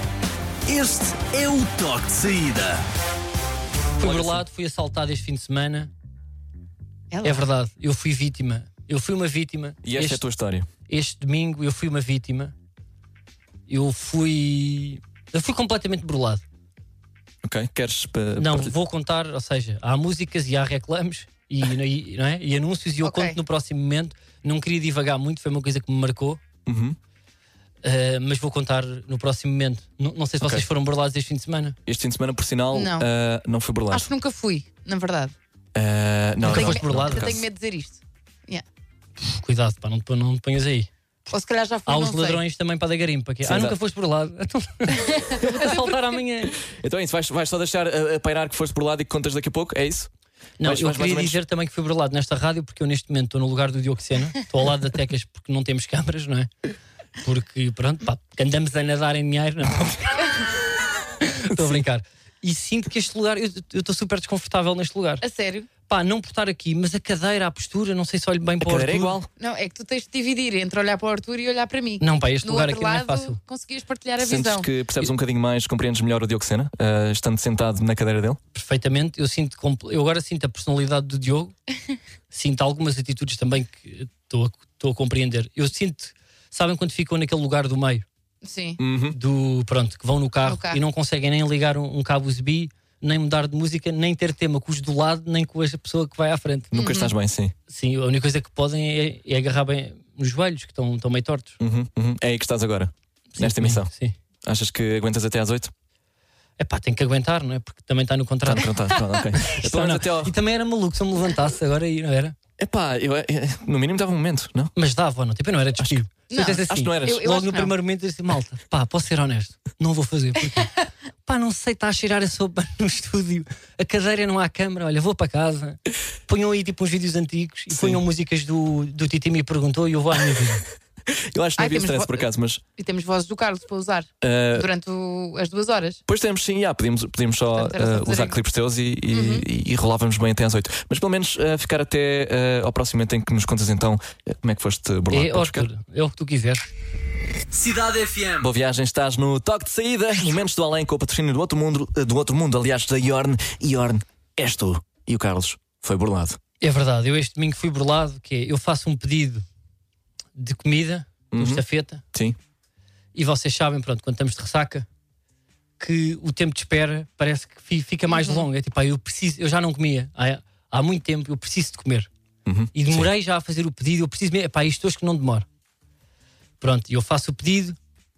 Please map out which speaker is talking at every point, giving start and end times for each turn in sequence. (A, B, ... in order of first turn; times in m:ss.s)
0:00.6-0:02.8 A
0:04.0-0:05.9 B
0:04.0-0:04.4 C
0:07.1-0:07.4 D
0:07.2-0:10.2 B
0:09.8-0:10.7 C
0:10.9-0:12.5 B
0:13.7-0:16.4 B
0:17.4-0:18.7 C
0:18.4-0:26.4 B
0:23.0-0:23.4 D
0:26.6-0:27.0 C
0:27.8-0:31.8 B
0:31.8-0:34.1 C
0:32.7-0:33.1 D
0:33.9-0:35.3 D
0:35.7-0:37.5 C
0:36.4-0:37.3 B
0:36.5-0:38.6 D
0:39.2-0:40.9 B
0:41.3-0:42.4 D
0:41.8-0:46.6 B
0:43.4-0:43.8 C
0:44.9-0:45.9 D
0:45.4-0:45.9 C
0:46.6-0:50.1 C
0:50.6-0:56.5 B
0:50.6-0:51.4 C
0:57.2-1:00.4 B
1:01.2-1:05.2 B
1:01.5-1:01.8 C
1:05.2-1:05.7 D
1:05.8-1:09.2 B
1:08.6-1:09.3 C
1:09.4-1:14.7 D
1:12.0-1:13.4 B
1:14.2-1:18.4 C
1:18.5-1:21.5 B
1:22.3-1:28.0 B
1:28.4-1:28.8 D
1:28.8-1:29.2 C
1:29.1-1:36.7 B
1:30.4-1:30.8 D
1:36.7-1:37.5 C
1:36.7-1:37.1 D
1:37.7-1:41.6 B
1:41.6-1:43.9 C
1:43.3-1:44.2 B
1:44.4-1:45.7 C
1:46.6-1:48.8 B
1:48.4-1:50.3 C
1:49.4-1:52.3 B
1:52.6-1:54.7 C
1:54.8-2:00.7 B
1:55.8-1:56.0 C
1:56.3-1:57.7 D
1:56.6-1:57.3 C
2:01.2-2:10.6 B
2:07.7-2:08.0 C
2:11.1-2:12.6 C
2:11.6-2:12.2 D
2:12.8-2:16.0 D
2:14.2-2:14.7 C
2:16.1-2:25.7 C
2:17.5-2:18.3 D
2:19.1-2:19.4 D
2:25.1-2:26.6 B
2:27.5-2:28.5 A
2:28.4-2:36.4 C
2:36.6-2:39.4 B
2:40.4-2:42.0 B
2:41.3-2:42.4 C
2:43.1-2:44.9 B
2:45.8-2:52.1 B
2:48.1-2:48.4 D
2:52.4-2:53.1 C
2:52.7-2:55.4 B
2:56.6-2:57.8 B